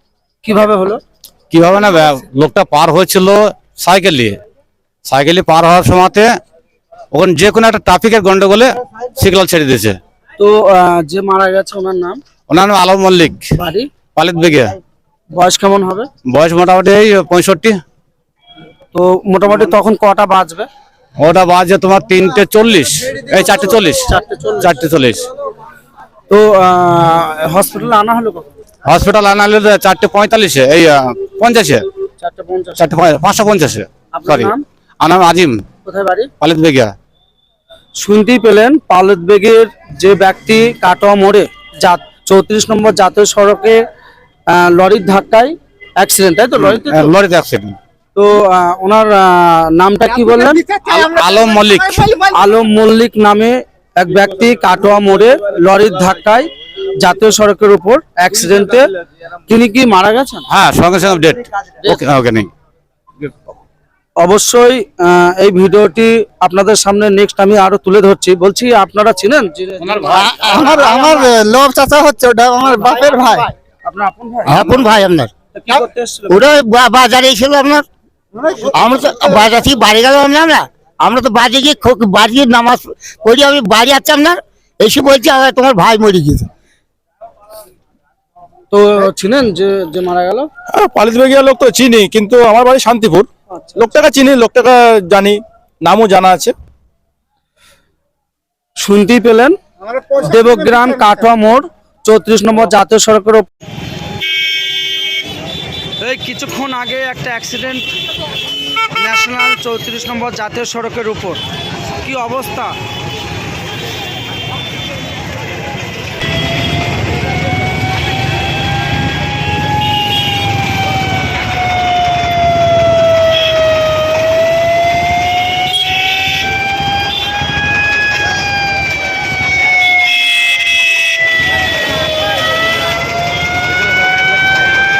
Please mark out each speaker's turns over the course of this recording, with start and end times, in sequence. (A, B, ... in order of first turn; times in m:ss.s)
0:00.4-0:01.0 A
0:01.5-0:04.4 B
0:05.0-0:06.3 B
0:07.1-0:10.0 B
0:10.4-0:12.2 A
0:12.5-0:13.4 B
0:13.6-0:13.9 A
0:14.1-0:14.8 B
0:15.3-0:16.1 A
0:16.3-0:17.8 B
0:18.9-0:20.7 A
0:21.2-0:25.3 B
0:23.4-0:24.7 A
0:26.3-0:28.5 A
0:28.8-0:31.8 B
0:32.2-0:32.9 A
0:32.8-0:35.6 B
0:34.1-0:34.6 A
0:35.8-0:36.3 A
0:36.4-0:36.9 B
0:37.9-0:43.8 A
0:44.5-0:47.1 A
0:46.6-0:47.8 B
0:48.1-0:50.7 A
0:50.8-0:52.2 B
0:52.2-0:58.9 A
0:59.5-1:00.5 A
1:00.5-1:02.5 B
1:04.2-1:10.2 A
1:09.8-1:11.1 B
1:10.1-1:13.5 C
1:13.8-1:14.8 A
1:14.4-1:15.3 C
1:15.5-1:16.4 A
1:16.3-1:17.8 C
1:18.4-1:26.5 C
1:28.7-1:30.5 A
1:30.7-1:36.5 D
1:33.5-1:33.8 A
1:38.8-1:39.6 A
1:40.1-1:43.5 A
1:46.0-1:47.9 A
1:48.9-1:51.4 A
1:52.0-1:52.8 A